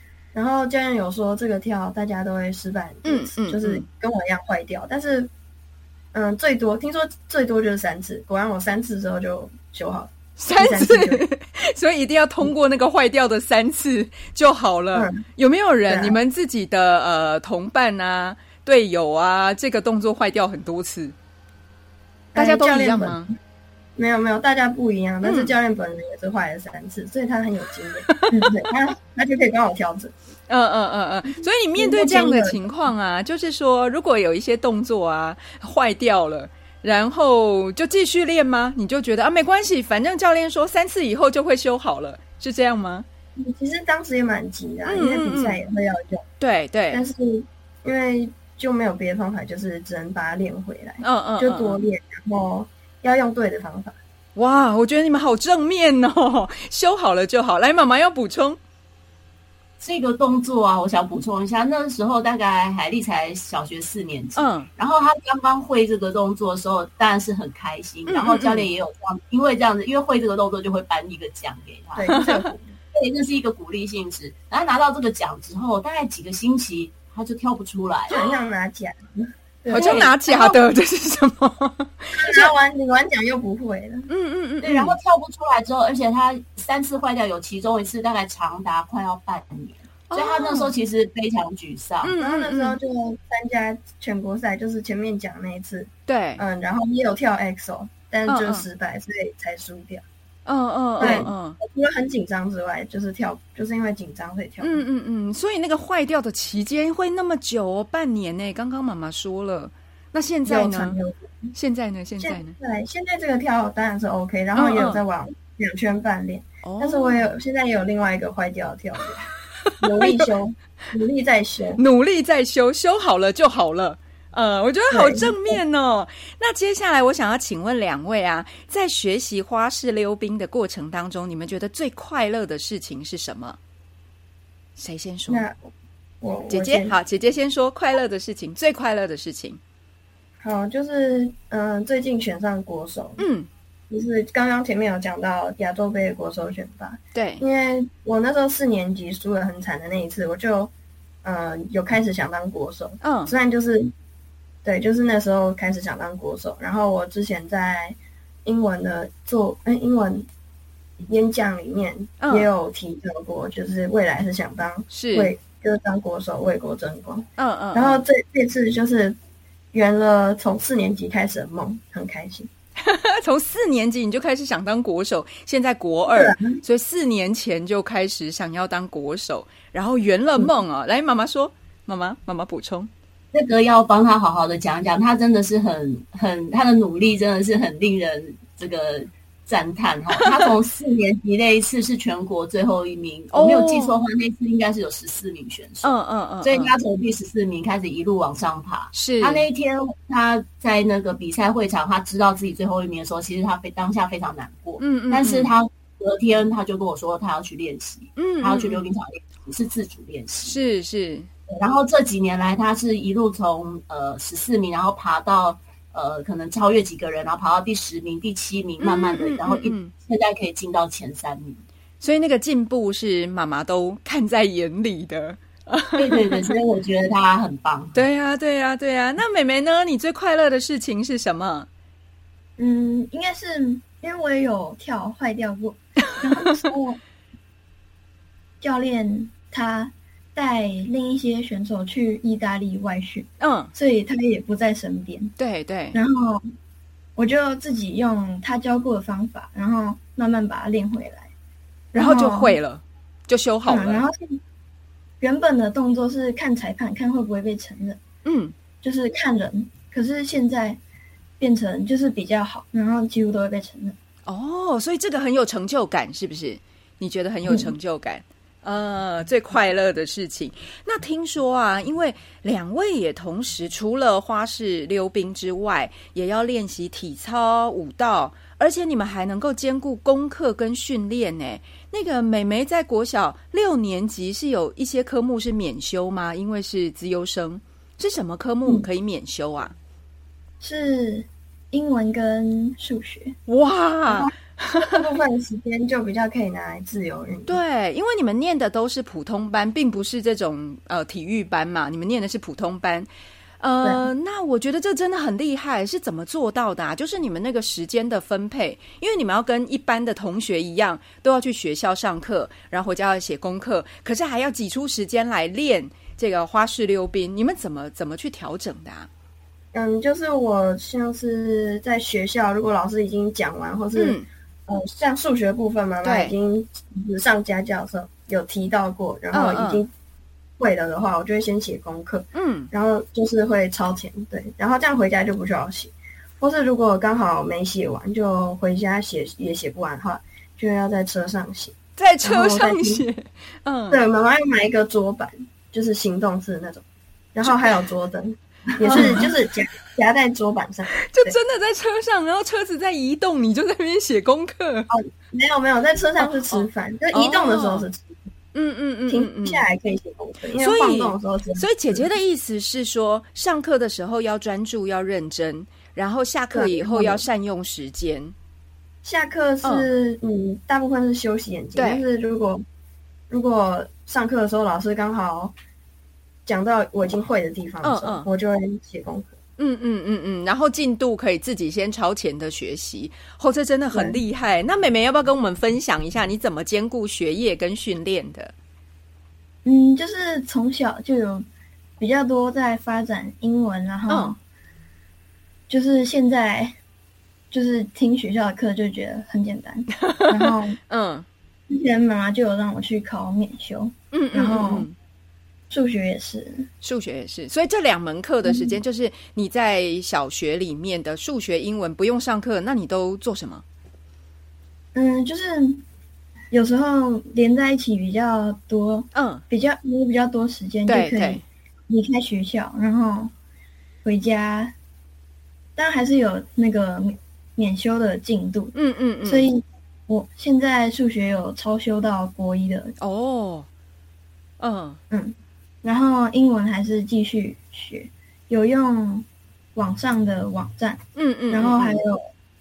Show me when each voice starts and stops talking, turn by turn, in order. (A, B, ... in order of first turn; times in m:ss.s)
0:00.3-0:05.3 A
0:03.0-0:03.8 B
0:06.1-0:11.2 A
0:10.4-0:21.2 B
0:14.9-0:15.2 A
0:15.9-0:16.2 A
0:22.3-0:23.3 A
0:22.4-0:23.3 B
0:24.0-0:30.1 A
0:25.2-0:25.5 B
0:28.1-0:28.4 B
0:30.5-0:43.1 B
0:31.8-0:32.6 A
0:43.4-0:46.2 A
0:44.9-0:45.6 B
0:46.4-0:47.0 B
0:46.9-0:54.0 A
0:51.0-0:51.8 B
0:54.4-0:58.6 B
0:59.8-1:12.1 C
1:04.4-1:04.7 B
1:08.1-1:08.7 B
1:12.0-1:12.8 A
1:12.1-1:12.5 B
1:12.9-1:18.2 C
1:18.1-1:20.1 A
1:19.7-1:22.5 B
1:19.7-1:20.6 C
1:22.1-1:24.1 A
1:24.1-1:25.0 B
1:24.6-1:32.1 C
1:30.1-1:30.7 B
1:32.0-1:32.8 B
1:32.2-1:40.0 A
1:36.1-1:36.4 B
1:38.3-1:38.7 B
1:40.5-1:41.6 B
1:41.0-1:44.8 A
1:41.0-1:41.3 C
1:44.6-1:51.0 B
1:50.4-1:51.5 A
1:51.6-1:52.6 B
1:52.2-1:59.3 A
1:54.6-1:55.0 B
1:56.6-1:57.4 B
1:59.8-2:01.8 A
2:01.8-2:13.6 B
2:04.9-2:05.6 A
2:14.8-2:15.4 B
2:15.3-2:16.9 A
2:16.5-2:19.6 B
2:20.4-2:23.2 A
2:23.2-2:23.5 B
2:23.9-2:30.7 A
2:27.2-2:27.4 B
2:31.2-2:33.9 A
2:33.0-2:33.3 B
2:34.6-2:40.3 A
2:41.1-2:49.2 A
2:42.2-2:42.5 B
2:44.9-2:45.3 B
2:47.4-2:48.0 B
2:49.7-2:52.5 A
2:52.8-3:02.9 B
2:56.1-2:56.6 A
3:03.3-3:30.6 C
3:13.3-3:14.0 B
3:15.8-3:16.7 B
3:18.9-3:19.5 B
3:24.8-3:25.5 B
3:28.2-3:28.8 B
3:30.4-3:31.3 B
3:31.5-3:41.6 C
3:38.8-3:39.9 B
3:42.0-3:46.6 B
3:46.0-3:48.0 C
3:48.0-3:51.7 B
3:52.6-3:57.0 D
3:58.6-4:05.3 D
4:03.4-4:03.7 B
4:05.4-4:06.0 B
4:05.9-4:06.4 D
4:07.2-4:11.3 D
4:11.9-4:12.6 D
4:12.0-4:14.0 B
4:13.7-4:14.4 D
4:15.2-4:18.0 D
4:18.2-4:18.6 B
4:18.8-4:20.8 D
4:21.4-4:24.0 D
4:24.3-4:49.7 B
4:50.6-4:53.4 D
4:53.5-4:55.0 B
4:54.1-4:57.6 A
4:57.5-5:03.1 B
5:03.6-5:19.1 B
5:19.7-5:29.9 A
5:24.0-5:24.3 B
5:26.0-5:26.3 B
5:29.3-5:29.8 B
5:30.6-5:43.1 A
5:32.4-5:32.7 B
5:42.0-5:44.0 B
5:43.9-5:51.4 A
5:47.4-5:47.7 B
5:48.8-5:49.3 B
5:51.1-5:54.9 B
5:54.9-5:58.2 A
5:56.5-5:57.9 B
5:58.5-5:59.6 B
5:59.1-6:02.1 A
6:00.6-6:08.4 B
6:06.5-6:07.3 A
6:09.0-6:12.6 A
6:11.8-6:12.0 B
6:13.3-6:15.5 A
6:16.4-6:19.3 A
6:17.8-6:18.3 B
6:19.6-6:28.5 B
6:23.9-6:24.2 A
6:29.6-6:31.5 D
6:32.0-6:34.4 D
6:34.1-6:34.4 B
6:35.7-6:36.8 D
6:37.5-6:40.8 D
6:40.1-6:41.3 B
6:41.7-6:44.9 D
6:44.1-6:45.0 B
6:45.7-6:46.7 D
6:46.8-6:53.6 B
6:48.5-6:48.8 D
6:55.0-6:55.8 D
6:56.5-7:03.3 D
6:59.1-6:59.4 B
7:00.9-7:01.4 B
7:04.0-7:04.7 D
7:05.8-7:08.7 D
7:08.7-7:09.5 B
7:09.2-7:13.0 D
7:13.0-7:13.7 B
7:14.6-7:15.0 B
7:15.1-7:22.3 D
7:21.2-7:22.0 B